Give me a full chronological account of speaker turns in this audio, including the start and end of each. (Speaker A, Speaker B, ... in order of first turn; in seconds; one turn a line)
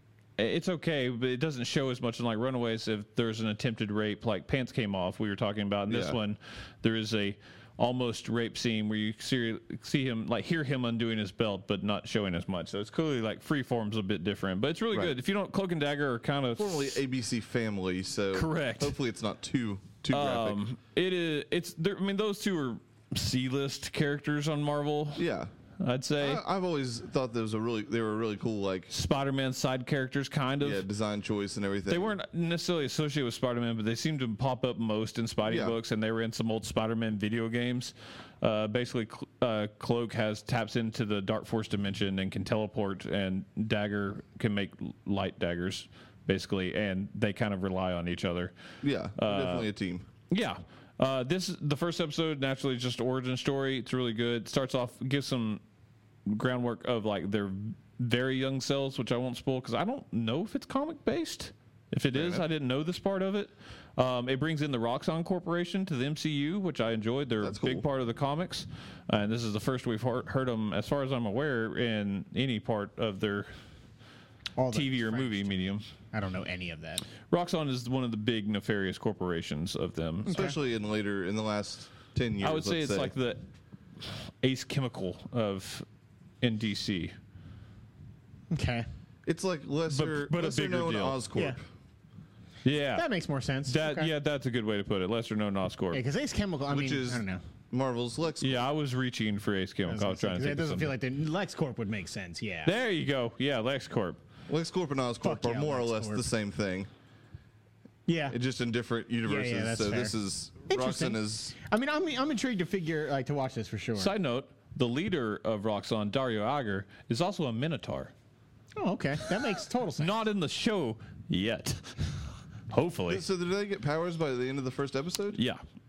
Speaker A: 0.4-17.0
Speaker B: 5.9-6.2
Speaker B: 16.6-20.6
Speaker A: 18.3-18.9
Speaker A: 20.1-25.2
Speaker B: 25.1-25.5
Speaker A: 25.8-26.4
Speaker B: 26.2-28.9
Speaker A: 28.9-30.8
Speaker B: 30.6-32.1
Speaker A: 31.9-48.5
Speaker B: 35.5-35.8
Speaker B: 48.8-50.1
Speaker A: 49.2-49.7
Speaker A: 50.3-55.6
Speaker A: 56.2-73.5
Speaker B: 62.1-62.5
Speaker B: 67.4-67.8
Speaker C: 74.5-75.5
Speaker A: 74.7-75.8
Speaker C: 76.1-77.0
Speaker A: 77.3-80.4
Speaker C: 80.2-80.5
Speaker B: 80.3-83.1
Speaker A: 82.4-83.4
Speaker A: 84.4-85.8
Speaker A: 86.4-87.1
Speaker C: 88.5-88.9
Speaker B: 89.2-91.6
Speaker A: 89.9-91.2
Speaker A: 92.6-93.1
Speaker C: 92.9-94.1
Speaker A: 93.7-96.0
Speaker C: 95.9-97.4
Speaker B: 96.7-98.7
Speaker A: 98.4-100.9
Speaker C: 99.9-102.7
Speaker A: 102.6-104.2
Speaker B: 104.5-106.9
Speaker C: 105.2-106.2
Speaker C: 108.1-108.3
Speaker B: 108.3-111.5
Speaker C: 109.2-110.1
Speaker C: 110.7-114.1
Speaker A: 114.0-118.1
Speaker C: 118.8-120.1
Speaker A: 120.0-123.2
Speaker B: 123.1-125.4
Speaker A: 125.3-125.6